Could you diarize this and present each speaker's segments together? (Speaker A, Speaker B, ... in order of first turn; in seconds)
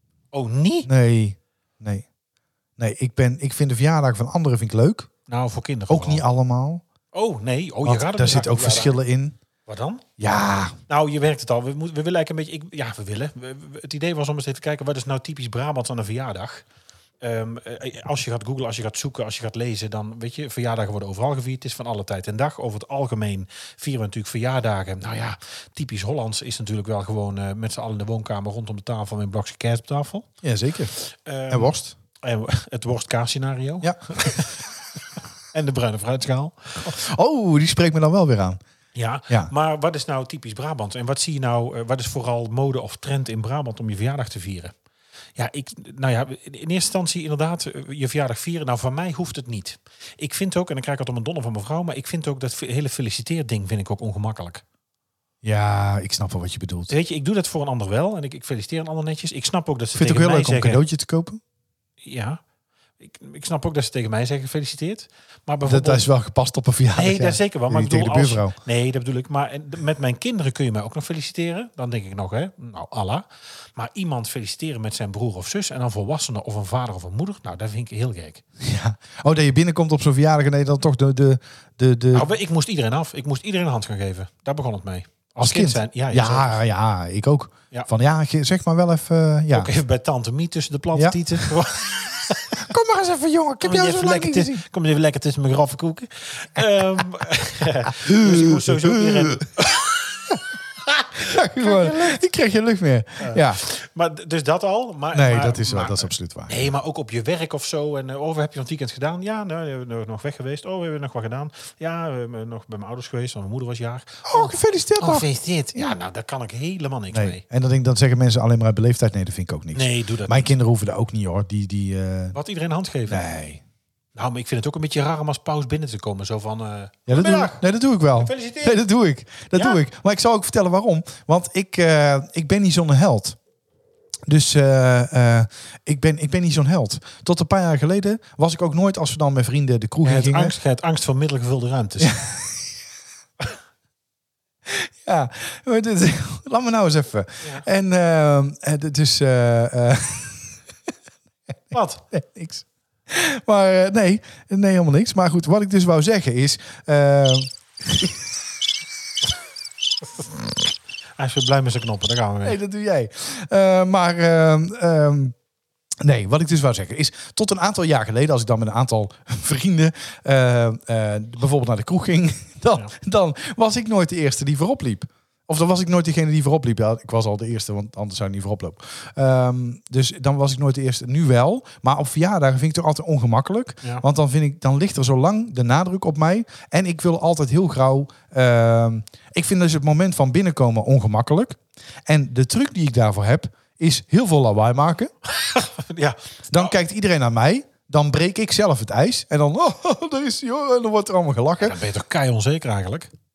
Speaker A: 0.3-0.9, 5.3-6.2, 7.1-9.0, 9.7-10.0, 10.9-16.6, 17.2-30.3, 30.9-34.6, 35.5-36.9, 39.0-44.7, 45.4-54.6, 56.9-60.8, 62.0-62.4, 63.0-66.1, 66.9-78.4, 82.1-86.6, 89.5-92.7, 93.6-100.0, 100.9-102.2, 103.2-117.4, 119.7-120.5, 122.3-123.3, 124.2-127.6, 128.2-128.8, 129.6-129.8, 140.0-142.2, 151.7-152.0, 161.2-162.6, 195.2-196.7, 201.6-203.1
Speaker B: 0.9-2.1, 2.8-5.1, 5.9-6.8, 7.8-9.4, 10.2-10.8, 30.4-30.9, 31.5-31.9, 33.8-34.3, 36.8-38.6, 55.4-56.9, 60.0-61.4, 65.7-68.6, 78.6-82.3, 85.4-89.7, 91.0-91.5, 92.6-94.6, 98.0-99.5, 101.2-103.6, 105.1-106.7, 114.2-116.0, 117.1-122.4, 123.1-123.6, 127.1-133.4, 134.3-140.6, 142.0-142.7, 144.7-150.6, 151.7-158.2, 162.4-165.3, 166.0-195.1, 196.5-201.8